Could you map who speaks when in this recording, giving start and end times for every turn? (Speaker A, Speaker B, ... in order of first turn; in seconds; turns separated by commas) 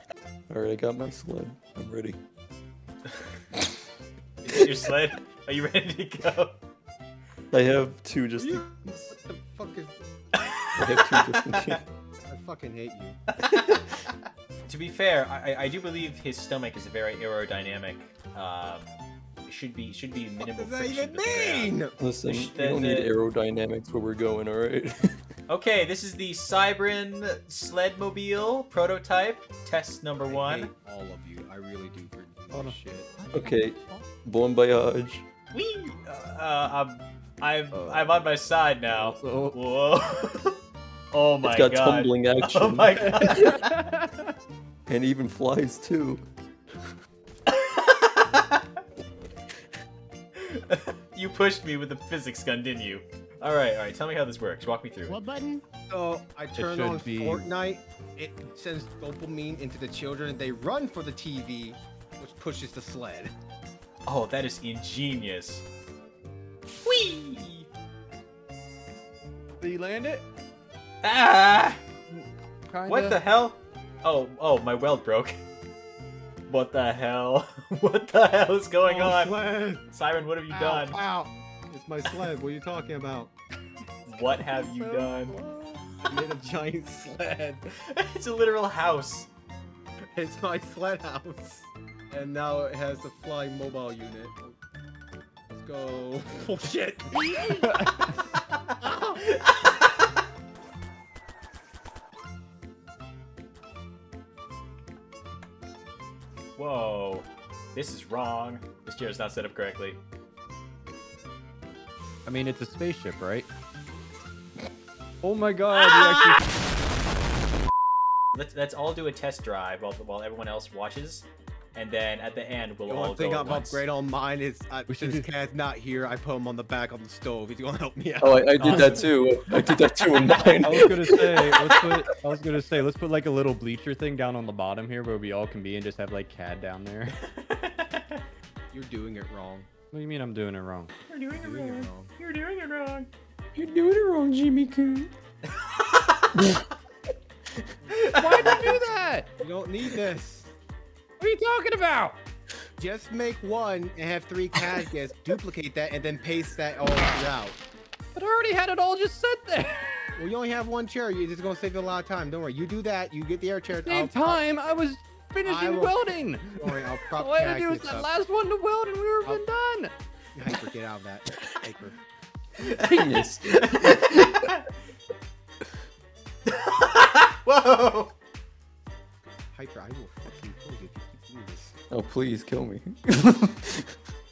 Speaker A: 0.5-2.2, Speaker B: 4.4-6.6, Speaker A: 4.5-4.8, Speaker A: 7.5-9.1, Speaker C: 8.4-10.0, Speaker B: 10.4-11.8, Speaker A: 10.8-11.8, Speaker C: 12.3-13.2, Speaker B: 13.3-14.1, Speaker B: 14.7-18.9, Speaker B: 19.4-23.1, Speaker C: 20.4-22.0, Speaker A: 22.0-25.1, Speaker B: 25.5-30.7, Speaker C: 30.2-33.2, Speaker D: 32.5-32.8, Speaker A: 33.3-35.2, Speaker B: 35.5-40.6, Speaker D: 37.7-38.2, Speaker D: 38.9-39.6, Speaker B: 41.1-43.5, Speaker A: 41.4-43.5, Speaker D: 43.1-44.1, Speaker A: 44.9-46.2, Speaker B: 47.5-48.6, Speaker B: 50.4-55.2, Speaker C: 55.1-63.3, Speaker D: 56.6-57.5, Speaker B: 64.0-65.7, Speaker B: 66.8-67.7, Speaker D: 69.6-70.2, Speaker B: 71.0-71.8, Speaker D: 72.1-73.2, Speaker B: 72.9-75.4, Speaker B: 76.5-81.0, Speaker C: 78.8-79.8, Speaker C: 80.5-83.3, Speaker B: 84.1-85.4, Speaker D: 84.4-85.9, Speaker C: 86.0-87.7, Speaker B: 87.7-89.3, Speaker C: 90.2-94.5, Speaker C: 95.5-97.5, Speaker D: 97.2-98.3, Speaker C: 98.8-99.2, Speaker B: 99.2-100.0, Speaker B: 106.6-110.0, Speaker D: 112.3-113.5, Speaker D: 115.2-116.4, Speaker B: 115.7-116.4, Speaker B: 118.3-123.8, Speaker C: 122.8-129.0, Speaker D: 124.9-125.3, Speaker A: 128.2-132.0, Speaker D: 128.6-129.1, Speaker D: 130.5-137.2, Speaker B: 137.2-138.2, Speaker C: 138.7-139.7, Speaker D: 139.9-140.9, Speaker B: 141.1-143.1, Speaker C: 141.4-142.1, Speaker A: 143.6-145.1, Speaker B: 145.6-146.3, Speaker A: 146.4-146.6, Speaker B: 147.9-148.8, Speaker D: 148.1-149.3, Speaker C: 149.4-150.5, Speaker D: 151.2-152.2, Speaker C: 152.8-157.6, Speaker D: 158.2-160.3, Speaker C: 160.2-164.4, Speaker D: 163.8-169.9, Speaker C: 165.4-166.1, Speaker C: 166.6-168.1, Speaker C: 170.3-172.0, Speaker B: 172.6-174.6, Speaker A: 172.8-174.5, Speaker B: 176.5-178.1, Speaker C: 179.5-181.8, Speaker A: 181.9-183.9